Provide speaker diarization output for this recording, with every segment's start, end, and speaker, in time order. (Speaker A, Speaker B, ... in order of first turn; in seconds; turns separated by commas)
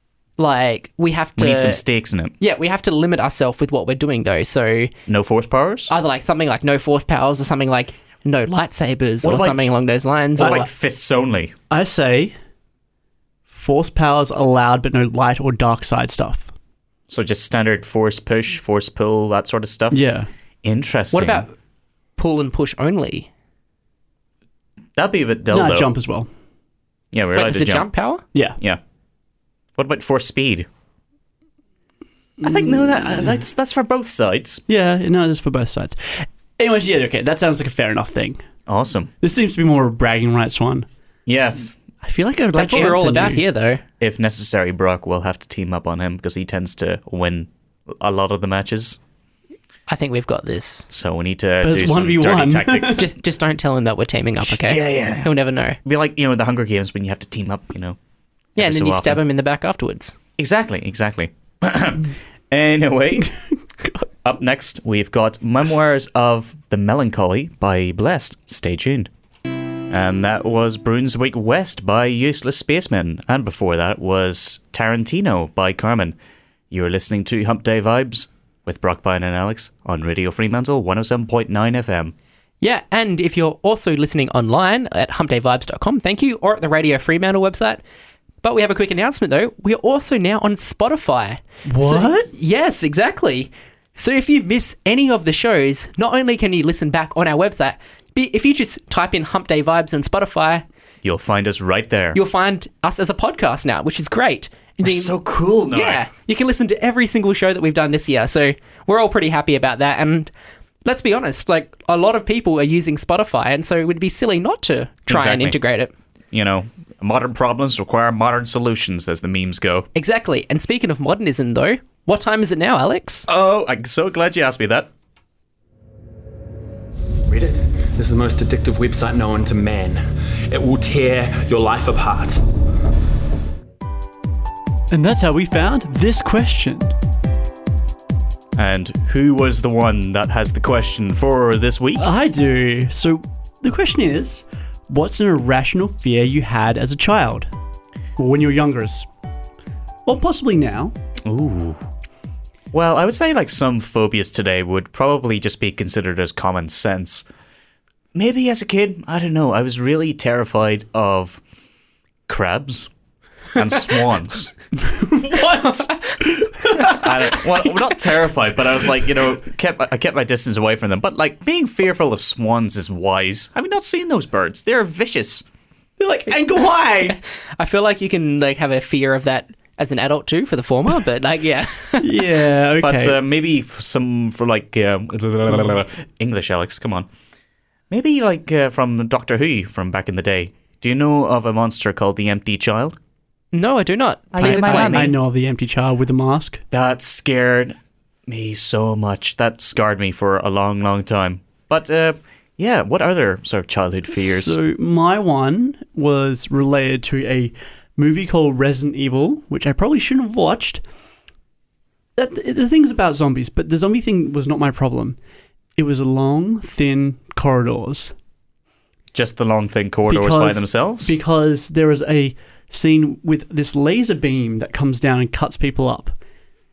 Speaker A: 0.4-1.8, Speaker B: 1.4-2.3, Speaker A: 2.4-4.9, Speaker B: 5.1-5.9, Speaker A: 5.9-10.7, Speaker B: 9.2-9.7, Speaker B: 10.4-11.5, Speaker C: 10.4-10.6, Speaker C: 11.7-12.3, Speaker C: 13.5-16.5, Speaker B: 17.1-20.0, Speaker C: 19.9-20.3, Speaker B: 20.6-21.4, Speaker A: 21.1-21.5, Speaker A: 22.2-23.3, Speaker B: 25.0-25.9, Speaker C: 25.5-26.3, Speaker B: 27.1-27.9, Speaker A: 27.4-28.2, Speaker B: 29.8-30.7, Speaker B: 32.4-34.6, Speaker C: 34.7-38.4, Speaker B: 38.7-39.1, Speaker C: 39.2-40.9, Speaker B: 41.3-41.8, Speaker C: 42.0-43.4, Speaker B: 42.5-43.0, Speaker A: 42.5-43.8, Speaker B: 44.0-49.0, Speaker A: 49.9-50.9, Speaker B: 50.9-53.1, Speaker C: 51.6-53.1, Speaker A: 52.9-55.8, Speaker B: 54.5-58.0, Speaker B: 58.6-59.2, Speaker A: 58.6-60.2, Speaker B: 60.4-63.3, Speaker B: 64.2-69.1, Speaker B: 69.9-76.2, Speaker B: 76.7-82.1, Speaker A: 82.6-87.8, Speaker A: 88.4-100.7, Speaker C: 91.7-92.3, Speaker B: 101.0-102.2, Speaker A: 102.1-105.1, Speaker B: 104.8-106.0, Speaker A: 105.7-110.3, Speaker A: 110.8-115.9, Speaker B: 115.1-115.6, Speaker B: 116.3-119.9, Speaker A: 120.0-123.3, Speaker B: 123.3-124.9, Speaker D: 127.3-132.4, Speaker C: 134.9-136.9, Speaker B: 138.6-142.1, Speaker C: 142.0-147.5, Speaker C: 148.2-149.1, Speaker C: 150.1-150.9, Speaker B: 151.2-151.8, Speaker B: 152.7-157.3, Speaker B: 158.1-161.4, Speaker B: 162.3-162.9, Speaker B: 163.6-164.5, Speaker C: 164.8-167.1, Speaker A: 165.5-166.0, Speaker B: 166.8-175.4, Speaker A: 166.8-167.8, Speaker C: 176.0-177.2, Speaker A: 177.1-182.3, Speaker C: 182.0-183.2, Speaker B: 182.8-187.1, Speaker B: 187.9-193.0, Speaker A: 193.5-195.0, Speaker B: 194.3-195.2, Speaker C: 194.4-196.6, Speaker B: 196.7-197.8, Speaker B: 198.3-204.6, Speaker C: 204.2-210.8, Speaker C: 212.2-215.2, Speaker C: 215.8-218.1, Speaker B: 219.1-221.2, Speaker C: 220.1-226.2